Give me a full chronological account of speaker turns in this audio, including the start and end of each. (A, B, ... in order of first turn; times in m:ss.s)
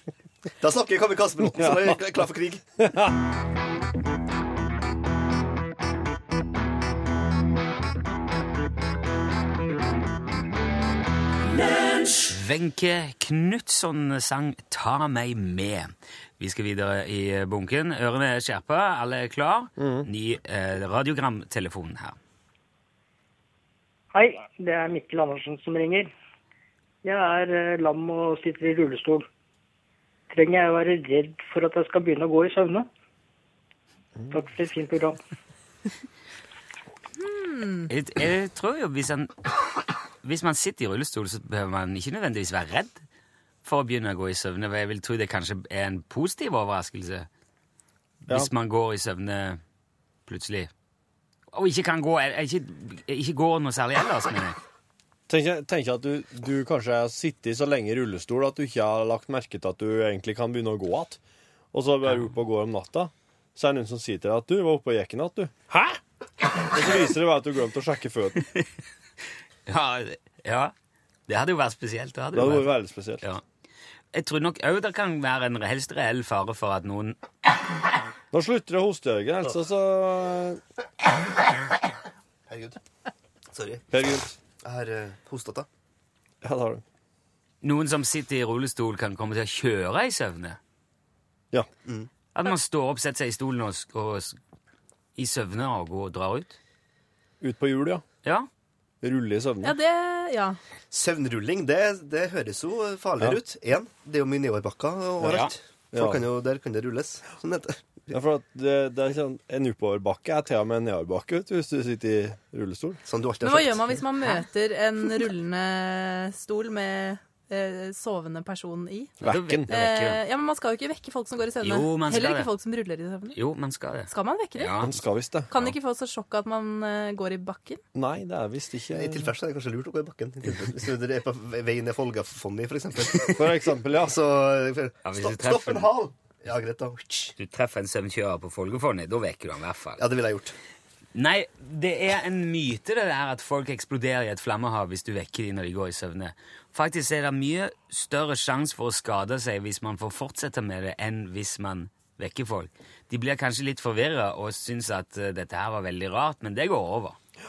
0:00.6-0:02.6 A
0:01.6-0:02.0 B
0:02.8-0:03.1 B
0:12.2-0:22.2 C
0:19.8-0:20.1 B
0:24.1-0:26.1 D
0:27.0-0:29.2 D
0:30.3-0:32.9 D
0:34.3-0:35.2 D
0:37.2-0:37.9 E
0:37.9-0:39.4 C
0:40.2-0:43.0 C
0:43.6-0:47.3 C
0:48.3-0:49.6 C
0:50.3-0:50.7 C
0:51.5-0:54.6 C
0:55.3-1:01.2 B
1:01.7-1:06.0 B
1:02.0-1:02.3 C
1:06.6-1:08.4 B
1:09.7-1:10.7 C
1:11.3-1:13.4 C
1:12.3-1:13.2 B
1:14.1-1:17.2 C
1:18.3-1:20.6 B
1:22.5-1:22.8 A
1:23.5-1:23.8 A
1:23.9-1:24.3 B
1:24.6-1:25.7 A
1:26.4-1:26.8 B
1:27.6-1:30.6 C
1:32.3-1:34.4 C
1:35.2-1:36.6 C
1:37.4-1:38.0 B
1:39.0-1:39.7 B
1:39.6-1:40.6 E
1:40.9-1:47.9 A
1:45.2-1:45.5 C
1:45.9-1:46.2 B
1:48.1-1:53.0 B
1:53.0-1:54.0 A
1:53.4-2:03.4 E
1:59.2-1:59.7 B
1:59.2-2:00.2 C
2:01.6-2:02.5 C
2:03.3-2:04.9 C
2:04.1-2:04.8 E
2:04.8-2:05.6 B
2:05.5-2:07.8 E
2:07.9-2:09.3 B
2:08.9-2:17.3 A
2:13.4-2:14.2 B
2:15.0-2:15.9 C
2:17.4-2:20.0 C
2:20.0-2:20.5 A
2:21.1-2:37.2 C